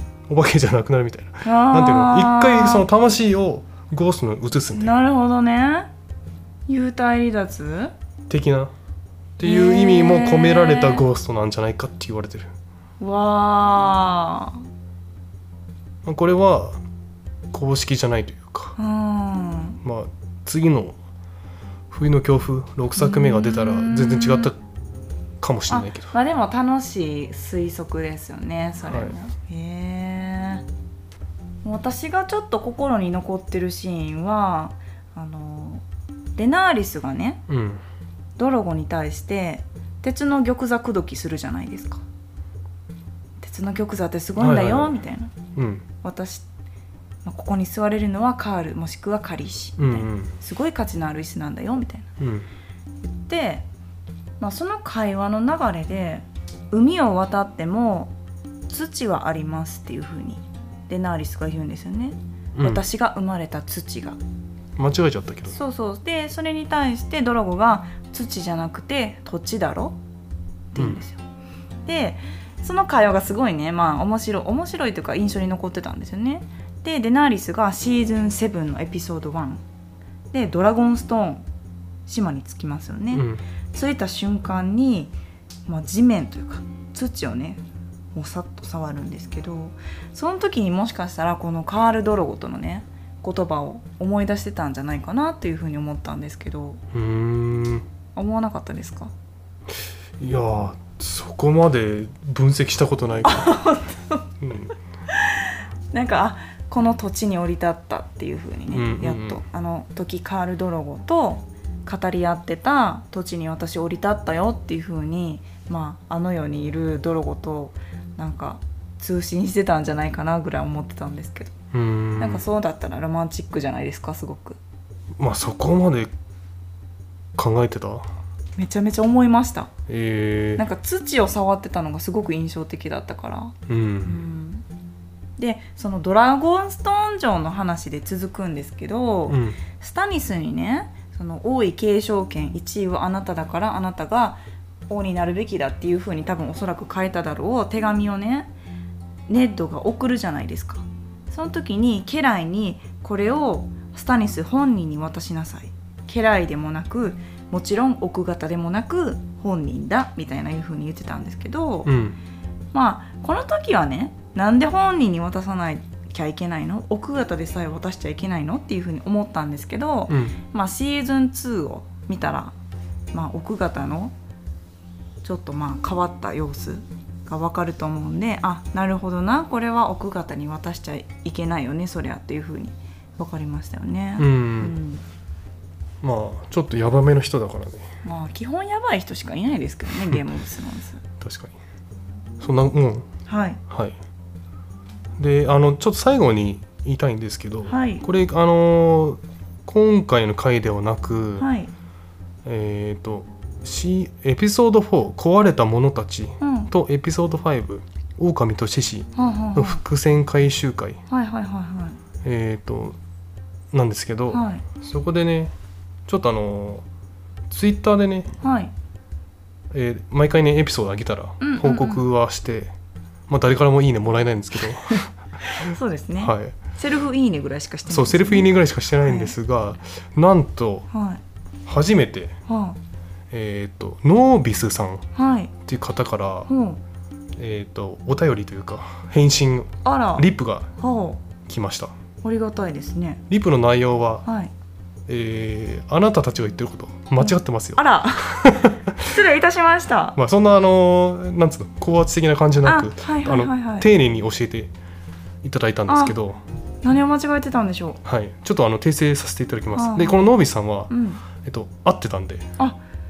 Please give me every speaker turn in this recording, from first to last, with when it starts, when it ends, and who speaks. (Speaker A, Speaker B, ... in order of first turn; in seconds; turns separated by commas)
Speaker A: 0.3-5.0, Speaker B: 1.4-2.9, Speaker B: 4.7-5.9, Speaker B: 6.7-7.9, Speaker A: 8.3-8.7, Speaker A: 9.4-12.5, Speaker B: 9.4-11.1, Speaker B: 13.0-14.6, Speaker A: 16.0-16.8, Speaker A: 17.5-18.8, Speaker B: 18.8-19.8, Speaker A: 19.8-21.0, Speaker A: 21.9-24.6, Speaker B: 23.0-24.5, Speaker A: 25.4-26.1, Speaker B: 25.7-30.7, Speaker A: 28.9-29.1, Speaker B: 31.6-35.8, Speaker B: 36.4-37.4, Speaker A: 37.5-37.8, Speaker B: 38.4-42.0, Speaker B: 43.4-45.3, Speaker A: 44.4-45.0, Speaker A: 45.6-45.8, Speaker B: 46.0-46.5, Speaker B: 47.2-52.1, Speaker A: 49.8-50.3, Speaker A: 52.2-52.5, Speaker B: 53.0-53.7, Speaker B: 54.4-58.1, Speaker B: 58.7-64.2, Speaker A: 62.6-62.8, Speaker A: 64.8-65.6, Speaker B: 65.5-70.0, Speaker B: 70.7-71.2, Speaker B: 71.9-79.6, Speaker B: 80.3-81.5, Speaker B: 82.1-85.1, Speaker A: 83.1-83.4, Speaker B: 85.7-87.6, Speaker B: 88.1-96.8, Speaker A: 96.9-97.8, Speaker B: 98.2-99.1, Speaker A: 100.2-103.5, Speaker B: 103.2-104.3, Speaker A: 104.4-104.7, Speaker B: 105.1-121.5, Speaker A: 108.7-109.4, Speaker A: 121.7-122.4, Speaker B: 122.2-124.6, Speaker A: 125.2-126.1, Speaker A: 127.4-128.1, Speaker B: 128.6-129.7, Speaker A: 129.9-130.6, Speaker B: 130.6-134.7, Speaker A: 133.7-134.2, Speaker B: 135.4-148.5, Speaker A: 139.3-139.6, Speaker B: 149.3-161.9, Speaker A: 161.8-162.2, Speaker B: 162.7-172.5, Speaker A: 170.1-170.4, Speaker B: 173.1-174.1, Speaker B: 175.2-185.0, Speaker A: 184.2-184.8, Speaker A: 186.0-187.9, Speaker B: 188.0-191.0, Speaker A: 191.2-191.6, Speaker A: 192.4-193.1, Speaker B: 193.3-193.6, Speaker A: 193.7-194.0, Speaker A: 195.2-201.5, Speaker B: 197.7-198.1, Speaker B: 201.4-201.7, Speaker A: 202.4-211.0, Speaker B: 206.4-206.7, Speaker B: 209.2-209.8, Speaker B: 211.1-212.0, Speaker A: 212.2-213.0, Speaker A: 213.7-215.5, Speaker B: 214.3-214.7, Speaker A: 216.1-216.8, Speaker A: 217.5-218.3, Speaker B: 218.4-218.7, Speaker A: 219.7-222.7, Speaker B: 221.4-222.0, Speaker A: 223.3-225.1, Speaker B: 224.9-229.3, Speaker A: 226.2-226.6, Speaker A: 227.9-230.9, Speaker B: 230.9-231.2, Speaker A: 231.7-232.3, Speaker B: 232.5-232.8, Speaker A: 233.3-235.1, Speaker B: 235.2-235.5, Speaker A: 235.7-236.5, Speaker B: 236.5-236.8, Speaker A: 237.4-240.7, Speaker B: 239.8-240.3, Speaker B: 240.8-241.2, Speaker A: 241.5-241.9, Speaker B: 242.2-243.2, Speaker A: 243.3-244.2, Speaker B: 244.2-244.5, Speaker A: 245.1-249.1, Speaker B: 247.2-250.2, Speaker A: 250.2-254.7, Speaker B: 252.6-253.9, Speaker A: 255.4-256.4, Speaker B: 255.9-256.1, Speaker B: 256.8-258.0, Speaker A: 258.1-260.9, Speaker B: 259.8-260.2, Speaker B: 260.9-261.2, Speaker A: 261.4-262.5